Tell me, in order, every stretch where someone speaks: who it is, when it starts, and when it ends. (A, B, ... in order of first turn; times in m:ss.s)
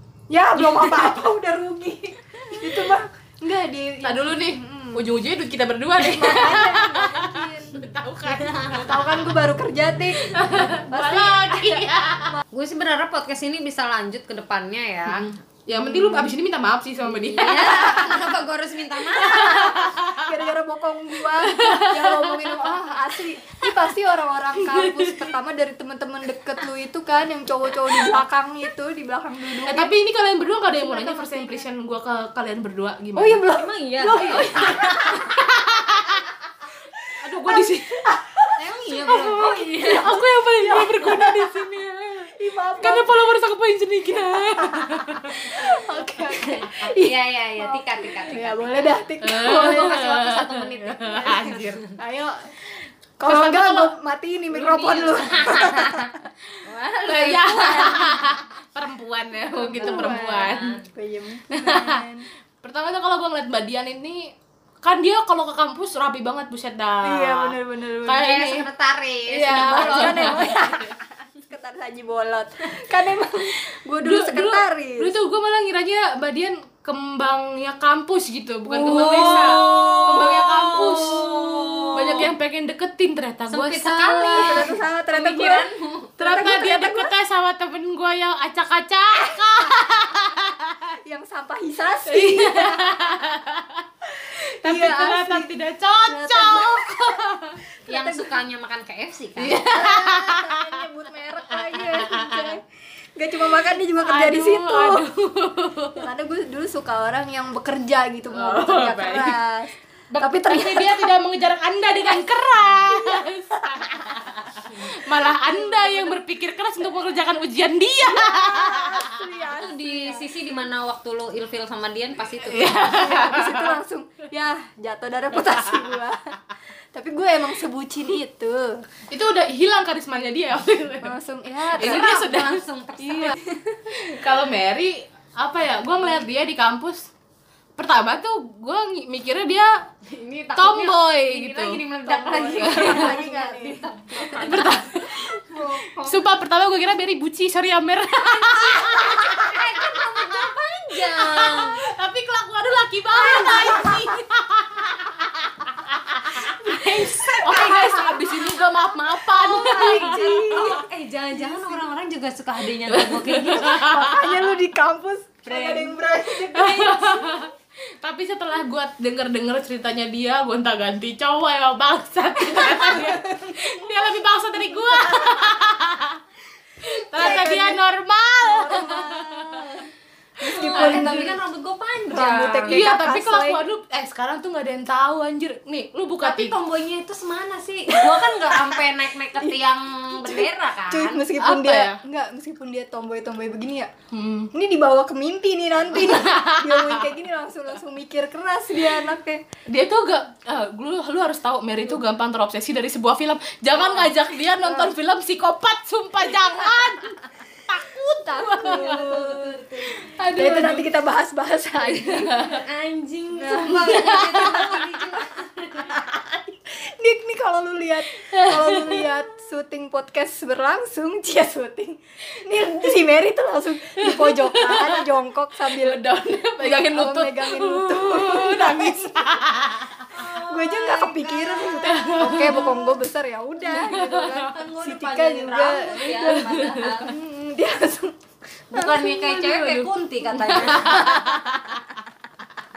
0:00.3-0:05.1 A
0:04.0-0:09.3 B
0:06.0-0:07.9 A
0:08.3-0:08.9 C
0:08.8-0:12.4 A
0:10.2-0:12.4 B
0:12.5-0:15.4 C
0:15.7-0:18.4 B
0:15.8-0:16.3 A
0:17.1-0:19.8 C
0:17.6-0:18.4 A
0:19.2-0:29.9 A
0:19.2-0:20.4 B
0:21.3-0:22.6 B
0:24.6-0:25.3 B
0:27.9-0:28.2 B
0:29.6-0:33.4 B
0:30.8-0:31.6 A
0:33.2-0:35.4 A
0:33.4-0:35.4 C
0:34.1-0:36.3 B
0:37.0-0:41.8 A
0:37.2-0:38.0 B
0:38.6-0:40.2 C
0:39.1-0:45.9 B
0:42.3-0:43.2 A
0:44.4-0:50.4 A
0:46.4-0:51.7 C
0:49.2-0:51.9 B
0:52.0-0:56.2 A
0:53.2-0:53.9 B
0:54.5-0:58.4 C
0:57.0-1:00.8 B
0:59.6-1:00.9 C
0:59.7-1:02.3 A
1:01.5-1:02.1 B
1:02.6-1:08.7 B
1:07.0-1:08.5 A
1:08.1-1:10.6 C
1:09.3-1:11.0 B
1:09.5-1:15.1 A
1:14.0-1:24.7 B
1:18.7-1:20.2 A
1:18.8-1:22.3 C
1:23.5-1:26.1 C
1:24.3-1:25.7 A
1:26.2-1:27.1 A
1:26.2-1:30.9 B
1:29.2-1:29.9 A
1:31.0-1:33.2 A
1:32.1-1:33.8 B
1:34.3-1:35.5 A
1:34.4-1:37.6 B
1:36.0-1:37.3 A
1:37.9-1:38.4 A
1:37.9-1:39.7 C
1:39.4-1:40.8 B
1:39.6-1:45.0 A
1:41.6-1:42.6 B
1:44.0-1:46.1 B
1:46.0-1:51.2 A
1:48.3-1:49.4 B
1:50.1-1:59.2 B
1:52.9-1:54.1 A
1:55.3-1:56.2 A
1:58.0-2:00.4 A
1:59.4-2:03.2 C
2:02.4-2:03.8 B
2:02.8-2:06.4 A
2:05.4-2:05.8 B
2:06.9-2:08.8 A
2:09.1-2:11.2 B
2:11.0-2:12.1 A
2:11.7-2:13.4 B
2:11.8-2:13.4 C
2:13.5-2:14.2 A
2:14.0-2:17.1 B
2:17.8-2:19.7 B
2:20.0-2:26.2 C
2:20.6-2:23.2 B
2:22.1-2:25.9 A
2:24.3-2:25.3 B
2:26.0-2:40.8 B
2:28.4-2:31.8 C
2:33.1-2:34.2 A
2:36.6-2:38.6 C
2:36.6-2:38.2 A
2:39.3-2:44.0 C
2:39.3-2:41.8 A
2:42.9-2:44.4 B
2:43.6-2:47.4 A
2:45.5-2:45.9 C
2:46.4-2:56.2 B
2:46.6-2:47.0 C
2:52.6-2:53.6 A
2:54.9-2:55.6 A
2:56.8-2:59.9 B
2:57.0-2:57.8 A
2:58.4-3:01.4 A
3:00.4-3:02.8 C
3:00.6-3:01.3 B
3:02.1-3:03.6 A
3:02.7-3:06.6 B
3:06.2-3:11.3 C
3:08.0-3:08.8 A
3:10.1-3:13.9 A
3:11.4-3:12.0 B
3:14.1-3:14.5 B
3:14.5-3:19.4 A
3:16.0-3:17.1 B
3:19.7-3:30.9 B
3:24.6-3:24.9 A
3:28.2-3:29.8 A
3:28.7-3:30.1 C
3:30.4-3:32.5 A
3:31.9-3:32.6 B
3:32.4-3:36.0 C
3:33.3-3:34.2 A
3:33.6-3:34.8 B
3:35.9-3:46.0 A
3:38.3-3:39.1 B
3:44.0-3:45.1 B
3:45.6-3:50.2 B
3:46.6-3:49.4 A
3:50.1-3:52.5 C
3:50.2-3:58.2 A
3:51.8-3:53.0 B
3:53.7-3:54.5 B
3:54.4-3:57.2 C
3:56.3-3:57.0 B
3:58.7-3:59.9 A
3:58.7-4:01.3 C
4:00.5-4:01.8 B
4:00.6-4:01.6 A